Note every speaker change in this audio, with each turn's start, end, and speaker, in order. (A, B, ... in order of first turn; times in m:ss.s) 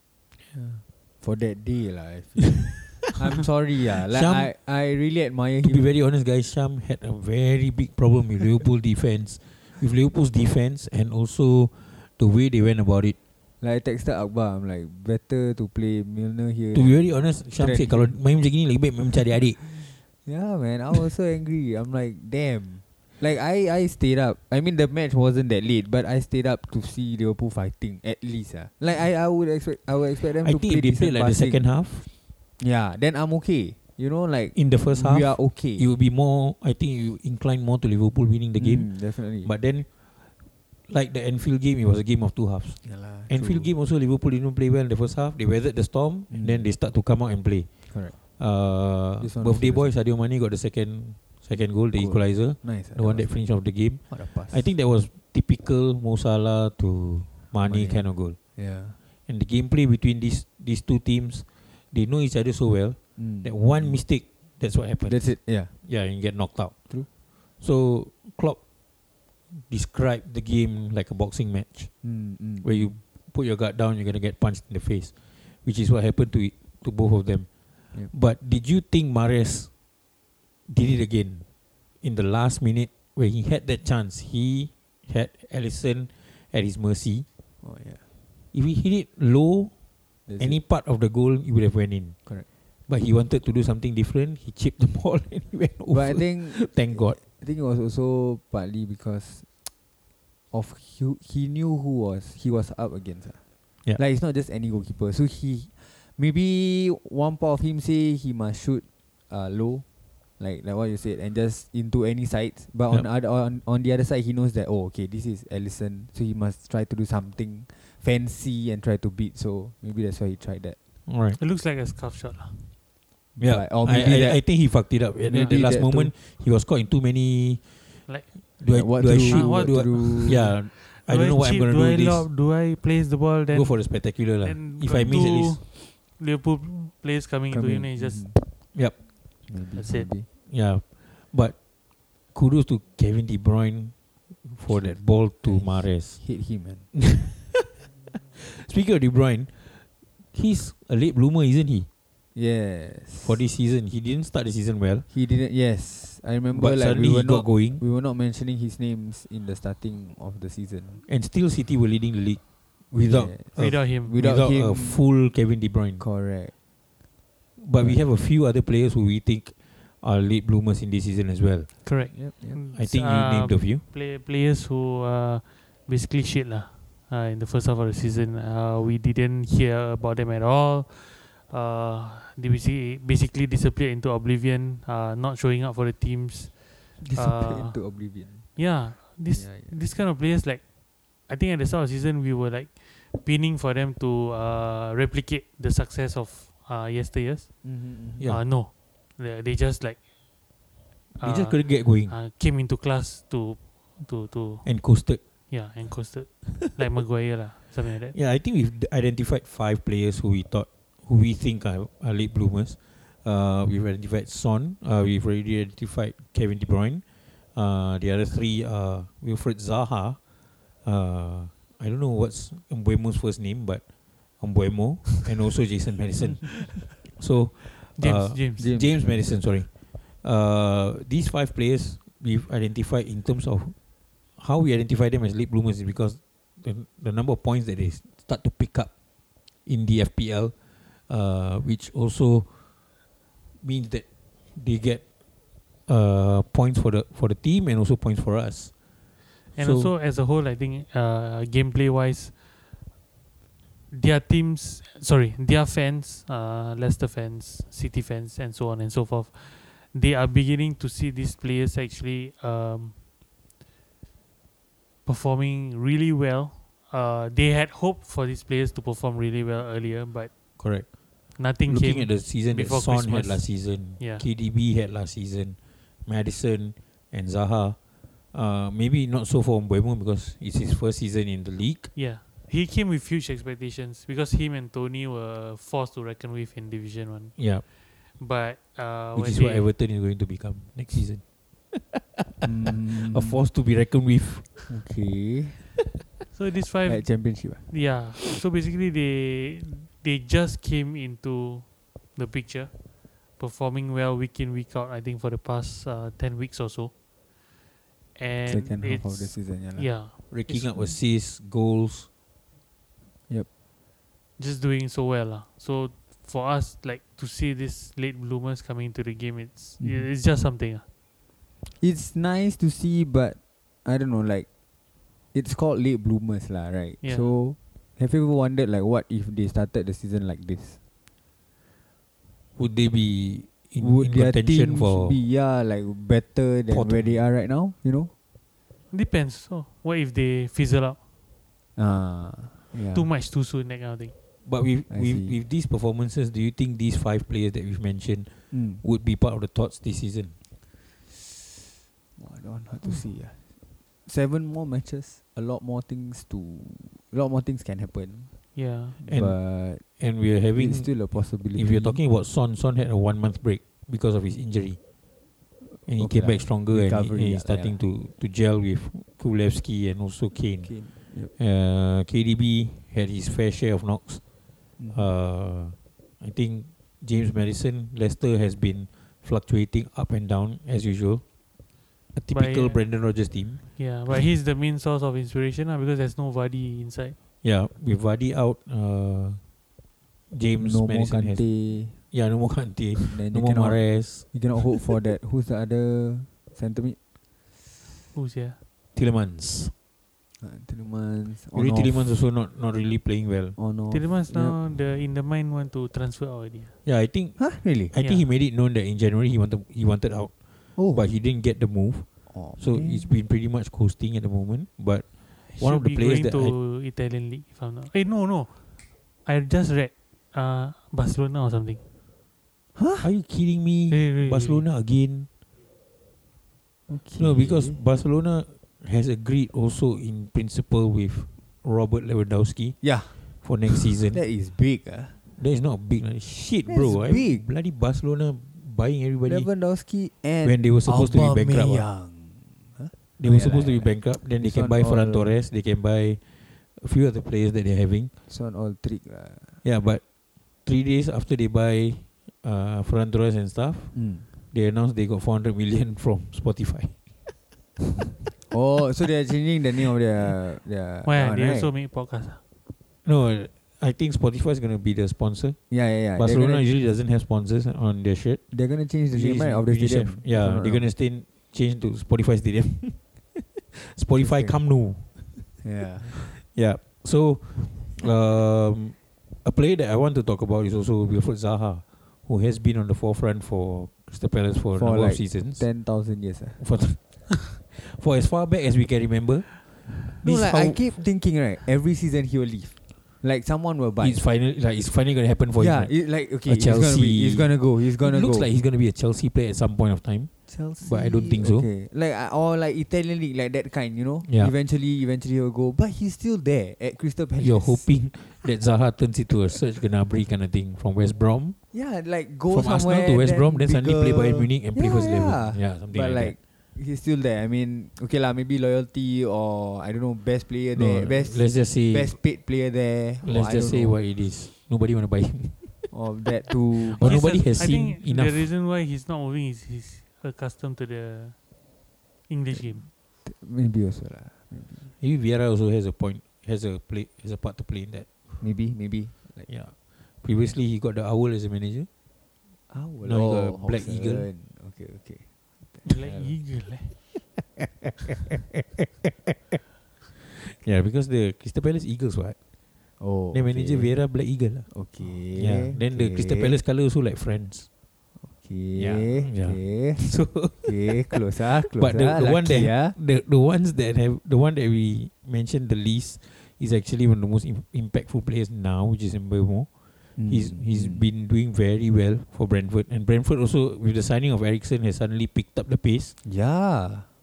0:00.5-0:05.9 A
0:04.0-0:04.5 B
0:05.6-0:13.2 B
0:13.6-0:18.2 A
0:16.7-0:19.6 B
0:19.8-0:31.6 A
0:30.3-0:32.1 B
0:32.6-0:35.9 A
0:34.6-0:38.9 B
0:38.6-0:39.5 A
0:39.4-0:39.9 B
0:40.9-0:47.7 B
0:42.8-0:43.7 A
0:46.3-0:46.7 A
0:47.9-0:48.2 A
0:48.4-0:58.4 B
0:49.2-0:49.9 A
0:51.9-0:54.7 A
0:57.6-0:59.0 A
0:59.3-1:06.8 B
1:03.2-1:04.0 A
1:05.0-1:05.7 A
1:07.6-1:08.6 B
1:09.5-1:11.9 B
1:12.0-1:13.0 A
1:12.6-1:15.1 B
1:15.6-1:17.5 B
1:18.1-1:19.7 B
1:20.7-1:21.4 B
1:22.0-1:27.3 B
1:27.6-1:28.1 A
1:28.5-1:29.7 B
1:30.3-1:30.6 A
1:30.4-1:32.2 B
1:32.9-1:37.2 B
1:35.9-1:39.6 A
1:40.5-1:43.4 A
1:44.0-1:49.8 A
1:50.4-2:00.8 A
2:01.1-2:01.4 B
2:01.4-2:02.7 C
2:03.4-2:06.1 A
2:03.4-2:07.6 B
2:08.1-2:08.3 C
2:08.6-2:12.3 B
2:08.7-2:10.5 A
2:08.8-2:18.3 C
2:13.5-2:15.6 B
2:17.5-2:18.4 A
2:19.5-2:20.3 A
2:19.8-2:20.1 C
2:20.4-2:21.6 B
2:22.3-2:26.2 B
2:24.7-2:26.9 A
2:26.9-2:27.7 B
2:28.3-2:31.9 B
2:32.4-2:33.4 A
2:33.2-2:35.1 B
2:35.1-2:41.0 A
2:36.5-2:37.8 B
2:41.1-2:46.0 B
2:43.0-2:45.0 A
2:43.6-2:44.1 C
2:46.0-2:46.5 A
2:47.6-2:51.7 B
2:47.8-2:48.0 A
2:51.8-3:06.5 C
2:52.1-2:52.6 A
2:52.7-2:53.8 B
3:07.0-3:08.6 A
3:07.1-3:07.8 C
3:08.6-3:10.6 C
3:09.2-3:09.8 A
3:11.3-3:17.5 C
3:17.6-3:18.4 A
3:18.3-3:20.0 C
3:21.2-3:24.8 C
3:21.2-3:22.1 B
3:24.6-3:25.2 B
3:25.5-3:28.2 C
3:26.4-3:26.8 B
3:28.1-3:37.0 B
3:37.6-3:40.2 B
3:40.8-3:43.8 B
3:44.4-3:53.8 B
3:48.0-3:48.7 C
3:48.6-3:49.4 A
3:54.4-3:58.9 B
3:59.7-4:00.5 B
4:01.1-4:02.5 B
4:03.6-4:05.1 B
4:05.9-4:08.7 B
4:09.6-4:12.4 C
4:09.6-4:09.9 B
4:13.9-4:22.9 C
4:25.0-4:30.3 C
4:30.6-4:31.0 B
4:31.4-4:34.2 C
4:31.7-4:37.8 B
4:38.3-4:41.9 B
4:42.0-4:47.5 C
4:47.4-4:47.6 B
4:48.2-4:49.7 C
4:49.2-4:54.7 B
4:52.4-4:53.4 A
4:54.7-4:55.8 A
4:56.3-5:02.8 C
4:56.8-4:57.7 A
5:03.4-5:06.9 C
5:08.2-5:10.8 C
5:08.5-5:09.9 A
5:10.3-5:12.1 B
5:14.4-5:20.8 C
5:19.8-5:20.1 A
5:21.6-5:24.5 A
5:25.3-5:30.8 A
5:27.0-5:27.4 C
5:32.6-5:35.2 B
5:33.8-5:38.1 A
5:36.7-5:37.2 B
5:38.9-5:41.0 C
5:41.8-5:43.1 A
5:42.9-5:44.1 C
5:44.4-5:50.3 B
5:44.9-5:45.4 A
5:48.5-5:48.8 A
5:52.2-5:53.5 A
5:54.1-5:58.3 A
5:58.6-5:59.0 C
5:59.0-6:00.0 A
5:59.1-6:04.8 B
6:00.5-6:02.0 A
6:05.7-6:07.8 A
6:05.9-6:10.8 B
6:10.6-6:11.3 A
6:11.4-6:14.2 B
6:14.8-6:15.1 A
6:14.9-6:21.2 B
6:22.1-6:23.8 B
6:22.3-6:23.0 C
6:23.8-6:27.2 C
6:27.4-6:29.4 B
6:30.3-6:34.4 B
6:30.6-6:32.0 A
6:33.0-6:37.0 A
6:38.2-6:38.6 C
6:39.0-6:39.7 B
6:40.4-6:42.1 A
6:41.5-6:43.6 B
6:43.6-6:44.6 A
6:43.9-6:46.7 C
6:46.8-6:50.3 B
6:47.4-6:47.9 A
6:48.0-6:48.3 C
6:50.8-6:51.1 A
6:50.9-6:52.1 B
6:52.3-6:53.1 A
6:52.6-6:56.6 B
6:55.5-6:58.6 C
6:59.2-7:01.8 C
7:02.8-7:03.1 A
7:03.0-7:05.3 B
7:03.9-7:04.6 C
7:06.9-7:07.8 A
7:07.2-7:12.8 B
7:12.8-7:15.2 A
7:13.4-7:14.2 B
7:15.3-7:19.5 B
7:16.7-7:17.5 A
7:19.3-7:25.4 A
7:20.4-7:21.9 B
7:23.2-7:26.2 B
7:26.7-7:28.1 B
7:28.3-7:29.6 A
7:29.6-7:30.0 B
7:30.6-7:34.0 B
7:33.9-7:34.3 A
7:34.5-7:37.0 B
7:38.5-7:41.7 A
7:41.0-7:42.4 C
7:43.0-7:45.6 B
7:45.7-7:46.7 A
7:46.2-7:48.4 B
7:48.5-7:50.9 A
7:49.1-8:05.7 B
7:54.2-7:54.6 A
7:55.6-7:56.3 A
8:04.8-8:06.6 A
8:06.6-8:10.8 B
8:10.0-8:14.2 A
8:14.0-8:21.7 B
8:15.6-8:18.5 A
8:20.5-8:27.9 A
8:24.2-8:24.5 B
8:27.4-8:31.6 B
8:31.7-8:44.0 A
8:32.5-8:36.4 B
8:40.7-8:42.2 B
8:43.2-8:45.9 B
8:45.9-8:47.4 A
8:46.9-8:48.5 B
8:47.0-8:51.4 C
8:52.3-8:52.8 C
8:53.2-8:54.9 A
8:55.0-8:58.1 B
8:58.4-8:59.5 A
8:59.5-9:01.9 B
9:02.7-9:06.4 A
9:03.0-9:04.3 B
9:05.8-9:07.0 C
9:09.0-9:09.6 B
9:10.2-9:12.4 B
9:13.0-9:14.1 A
9:13.3-9:14.7 B
9:14.7-9:16.6 A
9:15.3-9:17.7 B
9:18.2-9:23.0 A
9:18.7-9:29.7 B
9:30.2-9:31.1 A
9:30.3-9:36.2 B
9:36.2-9:37.1 A